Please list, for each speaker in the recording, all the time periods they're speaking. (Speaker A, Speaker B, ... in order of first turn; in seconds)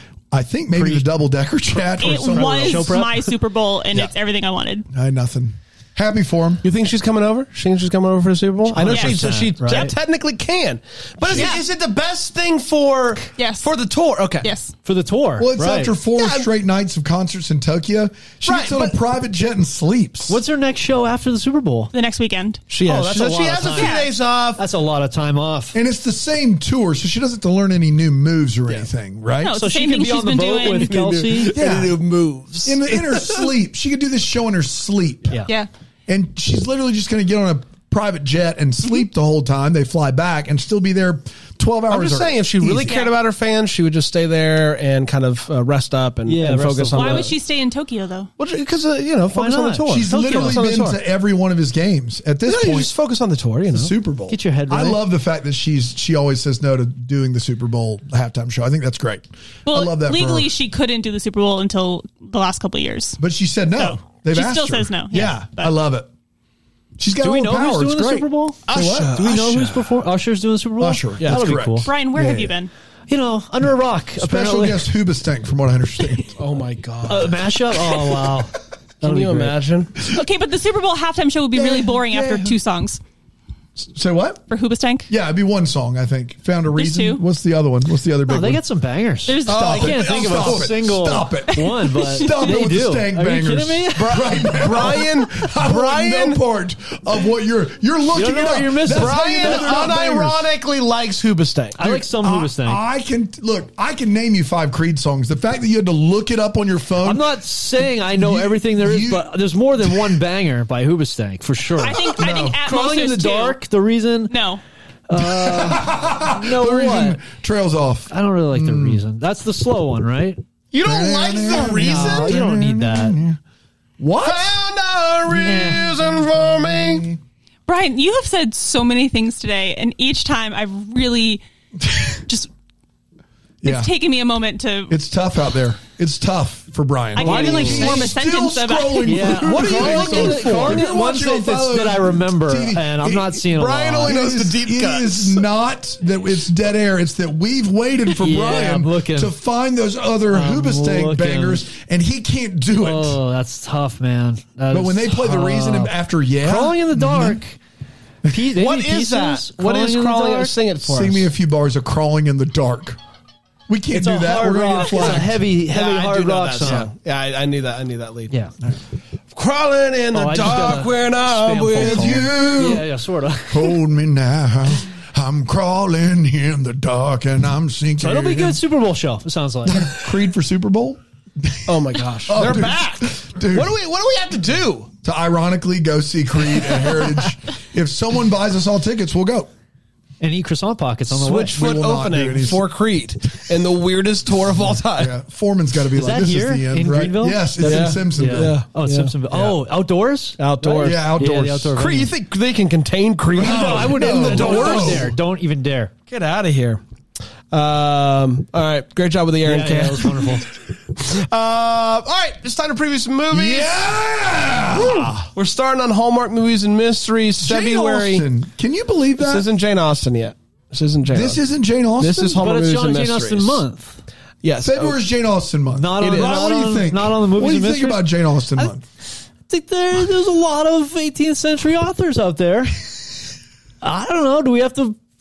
Speaker A: 0.3-3.0, 4.9-6.6, 15.4-20.4, 25.7-29.6, 31.5-32.0, 32.6-35.4, 36.1-43.0, 49.9-52.9, 53.7-60.5, 63.2-66.1, 67.0-69.9, 70.8-72.5, 74.2-76.4, 81.5-82.6, 83.8-84.4, 85.1-88.6, 89.4-100.4, 101.8-107.3, 108.1-109.3, 109.8-110.2, 111.8-112.6, 115.2-119.0, 120.8-123.4, 124.0-124.6, 125.6-127.2, 131.8-132.2, 133.6-133.9, 134.9-143.5, 144.0-153.2, 154.7-157.4, 160.8-163.0, 163.7-165.4, 171.8-172.8, 173.5-178.6, 179.7-183.8, 185.0-189.5, 191.5-192.7, 194.9-198.6, 200.8-201.8, 203.3-205.2, 213.3-215.3, 217.4-219.4, 221.1-222.5, 224.6-228.8
Speaker B: 0.7-1.1, 2.2-3.3, 8.7-9.9, 14.8-15.9, 20.3-21.9, 22.8-25.8, 29.6-31.6, 46.2-47.3, 49.3-50.6, 54.3-55.0, 67.2-71.9, 73.1-74.8, 77.0-79.6, 88.2-94.6, 98.1-99.9, 101.8-102.8, 107.0-112.1, 112.6-114.3, 115.1-117.2, 118.1-120.4, 121.5-123.2, 125.3-126.0, 137.5-137.8, 139.1-144.2, 148.1-149.3, 150.3-151.6, 152.8-157.6, 158.3-160.5, 163.9-166.9, 170.1-173.8, 178.0-179.9, 190.2-191.7, 195.9-202.1, 203.3-205.9, 209.4-210.4, 222.4-224.0, 225.8-228.7, 229.5-233.1, 233.8-235.0
Speaker C: 2.0-4.8, 8.8-9.3, 11.3-11.6, 13.4-13.7, 14.4-14.8, 21.9-22.6, 23.7-24.1, 29.4-31.1, 42.9-43.1, 46.9-48.3, 59.6-63.2, 63.8-65.7, 71.8-72.7, 80.0-83.0, 84.5-85.1, 86.7-87.2, 89.2-90.2, 91.6-92.6, 111.8-113.6, 114.3-114.6, 127.7-131.4, 133.6-135.0, 137.1-139.4
Speaker D: 6.6-14.5, 16.1-16.5, 18.4-18.9, 22.7-24.6, 30.8-33.4, 41.9-47.3, 48.4-51.0, 52.4-53.9, 68.7-69.8, 76.3-77.4, 79.0-79.9, 89.7-90.7, 94.4-96.4, 98.9-101.8, 120.7-122.4, 124.2-127.1, 137.2-138.1, 139.4-140.9, 143.5-145.4, 158.5-161.3, 165.7-168.3, 169.3-172.2, 181.7-184.9, 191.1-195.1, 197.6-199.6, 200.4-201.1, 201.7-205.1, 206.1-206.8, 207.5-210.4, 210.9-214.0, 215.3-218.3, 219.2-221.4, 222.0-223.6, 224.4-225.0, 226.0-226.5